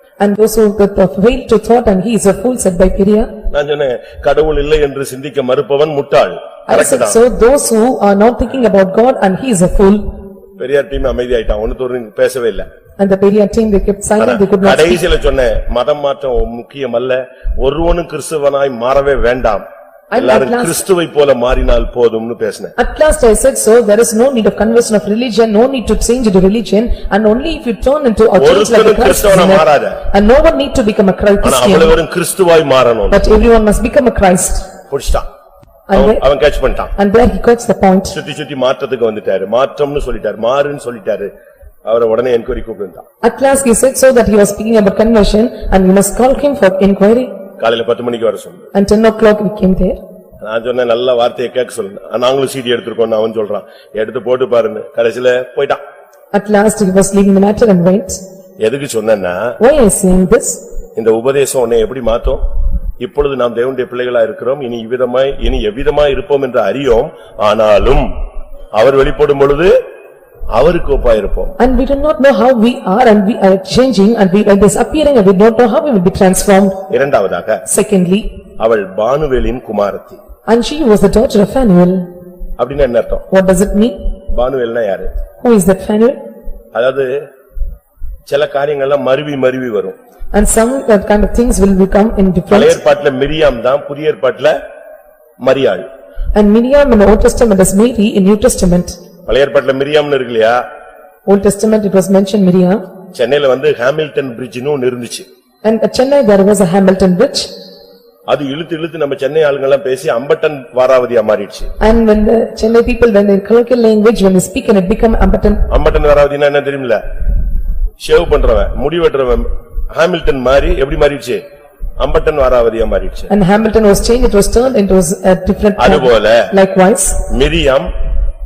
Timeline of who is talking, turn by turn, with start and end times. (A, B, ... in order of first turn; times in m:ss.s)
0:00.2-0:03.3 A
0:03.5-0:07.2 B
0:06.7-0:10.0 A
0:10.6-0:12.7 B
0:13.0-0:15.0 A
0:14.2-0:22.7 B
0:20.1-0:20.8 A
0:22.8-0:32.0 A
0:28.3-0:30.0 B
0:31.4-0:33.2 B
0:33.1-0:34.6 A
0:34.9-0:35.2 B
0:35.9-0:36.2 A
0:35.9-0:36.9 B
0:37.0-0:38.1 A
0:38.1-0:41.3 B
0:41.8-0:43.0 B
0:43.2-0:47.3 A
0:47.6-0:48.7 B
0:48.7-0:50.0 A
0:50.4-0:55.8 B
0:56.3-0:58.2 A
0:58.6-0:59.5 B
0:59.6-1:00.6 A
1:01.0-1:02.4 B
1:03.0-1:08.1 B
1:08.8-1:09.7 B
1:10.5-1:11.6 B
1:11.6-1:16.8 A
1:16.9-1:17.6 B
1:17.7-1:18.3 A
1:18.6-1:20.2 B
1:20.5-1:22.0 A
1:22.6-1:23.2 B
1:23.3-1:24.0 A
1:24.3-1:25.1 B
1:25.4-1:26.2 A
1:26.7-1:27.2 B
1:28.3-1:30.0 B
1:30.3-1:32.8 A
1:32.5-1:34.6 B
1:35.4-1:35.9 B
1:36.3-1:39.0 A
1:39.3-1:40.6 B
1:41.3-1:42.8 A
1:43.1-1:45.2 B
1:45.6-1:47.5 A
1:48.3-1:51.7 B
1:51.8-1:55.6 A
1:55.7-1:57.0 B
1:58.0-2:01.4 B
2:02.0-2:03.3 B
2:03.3-2:07.2 A
2:05.8-2:06.5 B
2:07.3-2:07.9 B